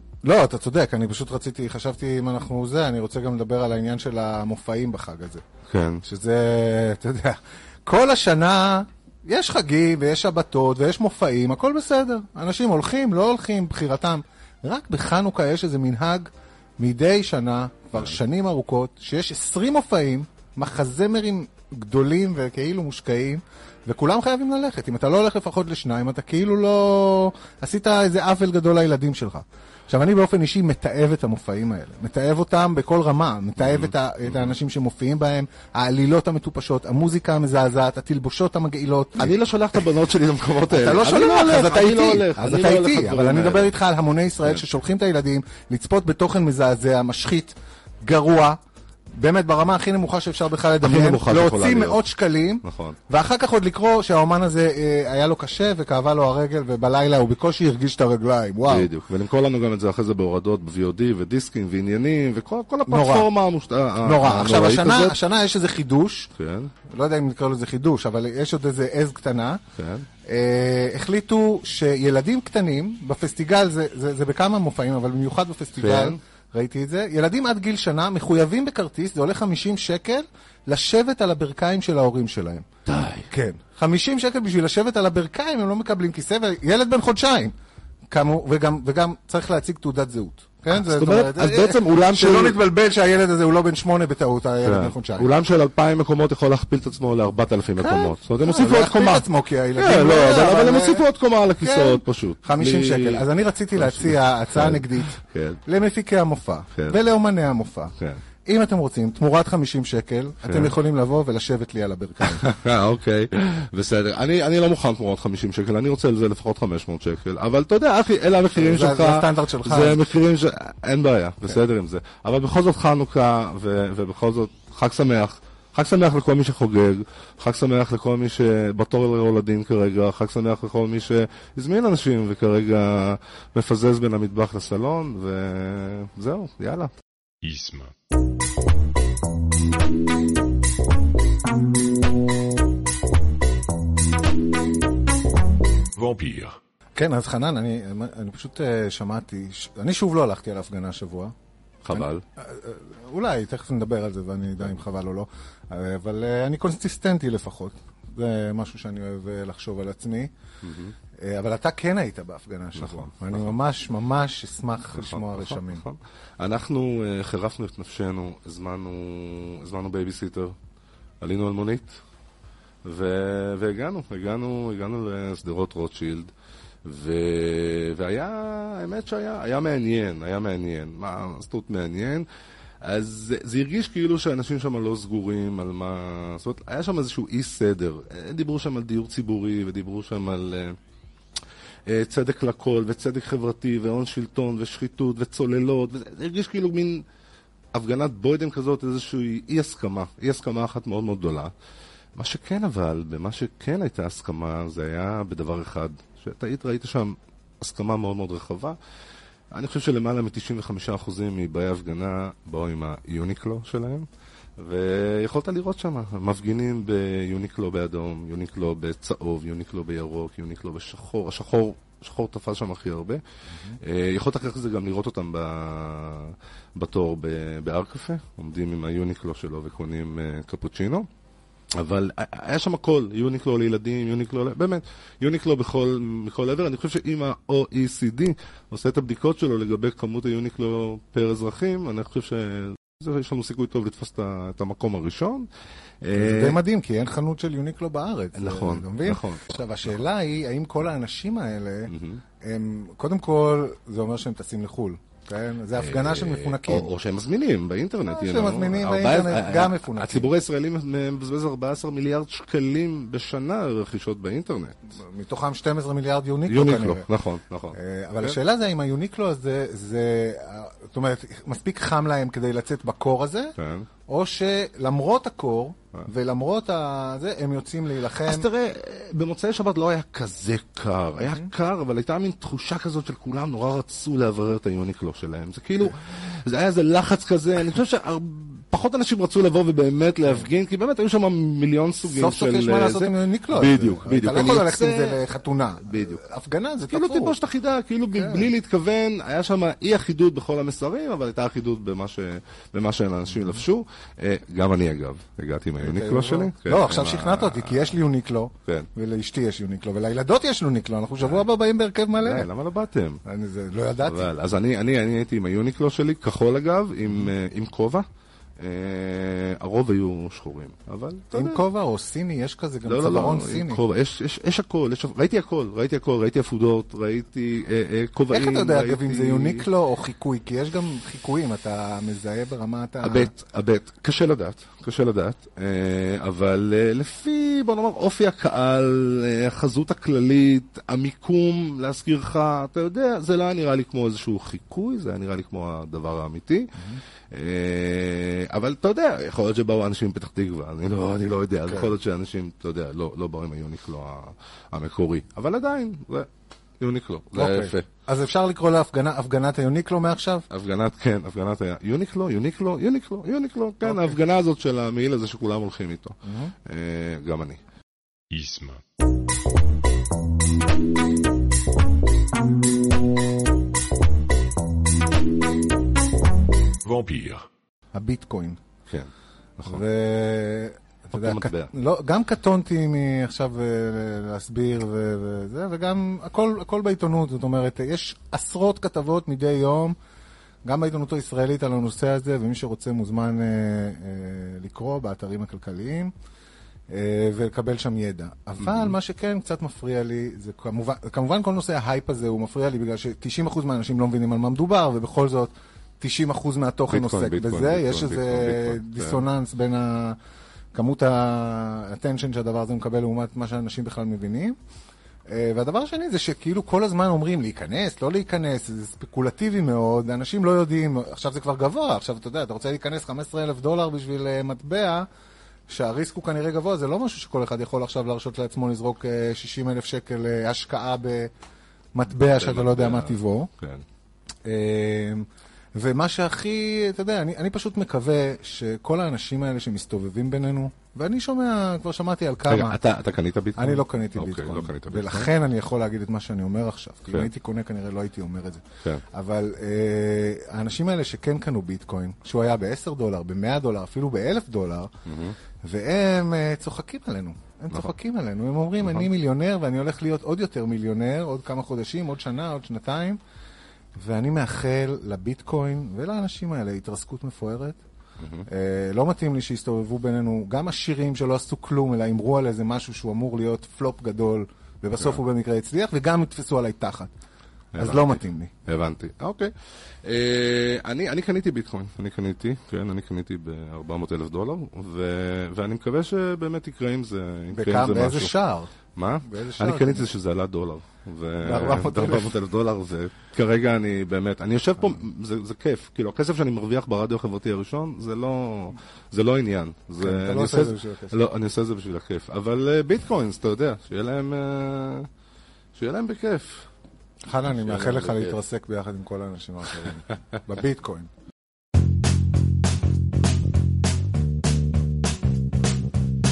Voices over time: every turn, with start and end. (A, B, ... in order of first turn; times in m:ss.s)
0:00.2-0:05.4 A
0:05.7-0:06.0 B
0:06.0-0:39.3 A
0:39.2-0:43.7 B
0:40.7-0:48.6 A
0:49.1-0:58.9 A
0:50.8-0:52.0 B
0:52.6-0:53.0 B
0:58.7-1:05.2 B
1:02.9-1:03.3 A
1:04.0-1:06.3 A
1:06.4-1:06.7 B
1:06.8-1:09.6 A
1:09.7-1:10.1 B
1:10.2-1:22.7 A
1:15.8-1:16.2 B
1:22.8-1:23.3 B
1:23.3-1:27.5 A
1:28.1-1:35.3 A
1:30.7-1:32.6 B
1:34.6-1:45.6 B
1:37.8-1:41.0 A
1:41.6-1:52.5 A
1:46.7-1:47.0 B
1:50.4-1:50.7 B
1:52.2-2:16.9 B
1:58.5-2:00.0 A
2:17.4-2:17.9 C
2:25.9-2:26.6 C
2:26.9-2:31.3 A
2:31.8-2:32.2 B
2:31.9-2:40.3 A
2:40.6-2:41.0 B
2:41.2-2:45.8 A
2:42.8-2:43.6 B
2:44.9-2:50.6 B
2:51.2-2:52.0 B
2:52.8-2:56.3 B
2:56.8-3:02.2 B
3:02.8-3:10.8 B
3:11.9-3:17.0 B
3:17.7-3:21.5 B
3:22.2-3:28.8 B
3:29.5-3:51.1 B
3:51.7-4:05.5 B
4:06.0-4:06.6 B
4:06.1-4:16.9 A
4:08.3-4:09.6 B
4:11.9-4:12.2 B
4:15.8-4:24.8 B
4:18.0-4:20.3 A
4:25.0-4:27.0 A
4:26.5-4:28.4 B
4:27.7-4:33.5 A
4:33.6-4:33.9 B
4:34.1-4:38.5 A
4:38.2-4:55.3 B
4:41.2-4:41.5 A
4:52.0-4:57.4 A
4:55.8-4:56.2 B
4:56.9-5:08.0 B
4:58.1-4:58.5 A
5:05.8-5:12.5 A
5:12.2-5:13.2 B
5:13.2-5:14.3 A
5:14.0-5:18.0 B
5:18.6-5:21.6 B
5:21.3-5:23.8 A
5:22.8-5:29.7 B
5:28.3-5:33.3 A
5:33.0-5:56.3 B
5:51.7-5:51.9 A
5:56.8-5:57.9 B
5:57.3-6:00.4 A
6:00.5-6:07.6 B
6:03.8-6:04.2 A
6:06.2-6:06.5 A
6:08.3-6:08.8 C
6:16.8-6:17.4 C
6:17.9-6:18.6 A
6:18.9-6:19.8 B
6:19.6-6:30.0 A
6:21.1-6:21.7 B
6:30.6-6:36.1 A
6:36.9-6:50.2 A
6:46.9-6:49.2 B
6:50.7-6:54.6 A
6:55.3-7:05.1 A
7:05.7-7:11.3 A
7:11.9-7:13.5 A
7:12.2-7:13.8 B
7:14.4-7:22.8 A
7:22.5-7:25.3 B
7:23.6-7:34.9 A
7:35.0-7:35.4 B
7:35.6-7:43.2 A
7:44.0-7:47.8 A
7:48.2-7:48.5 B
7:48.4-7:57.1 A
7:57.7-8:08.3 B
7:57.8-7:58.5 A
8:07.5-8:08.7 A
8:08.9-8:25.1 B
8:09.2-8:10.1 A
8:11.4-8:12.4 A
8:20.0-8:21.2 A
8:25.7-8:26.7 B
8:27.2-8:31.1 A
8:27.5-8:28.4 B